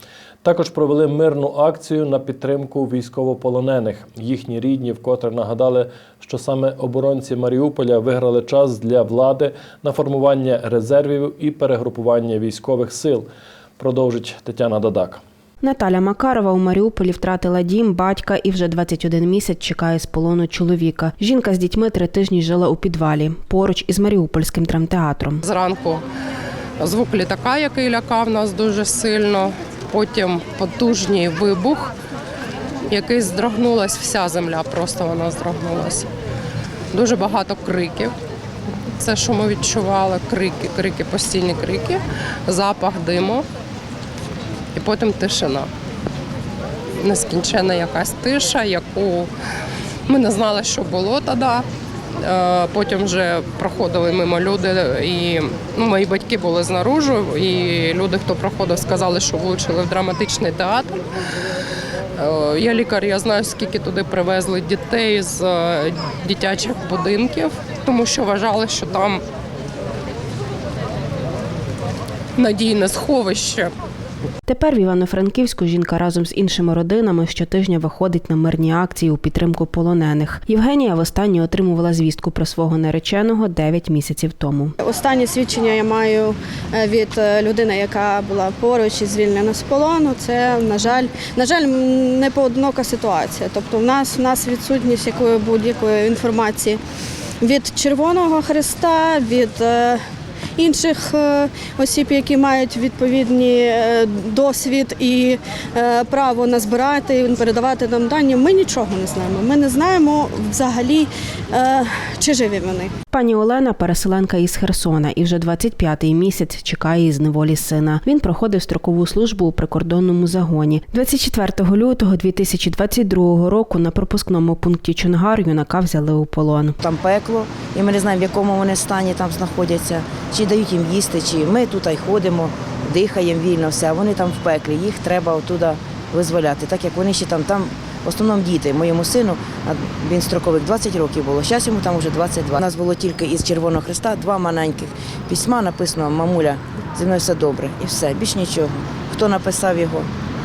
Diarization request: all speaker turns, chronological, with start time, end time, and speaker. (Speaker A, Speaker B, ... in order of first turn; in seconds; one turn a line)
Speaker A: 0.4-13.3
Speaker A: 13.8-15.2
Speaker B: 15.6-25.4
Speaker C: 25.4-26.0
Speaker C: 26.8-31.9
Speaker C: 32.9-36.1
Speaker C: 36.9-38.1
Speaker C: 39.0-43.5
Speaker C: 44.7-45.7
Speaker C: 47.0-49.3
Speaker C: 50.1-51.7
Speaker C: 52.2-61.0
Speaker C: 62.2-69.2
Speaker C: 72.4-73.7
Speaker B: 74.5-84.8
Speaker D: 84.8-96.8
Speaker D: 97.4-100.0
Speaker D: 100.6-112.9
Speaker B: 113.1-126.8
Speaker E: 126.8-150.1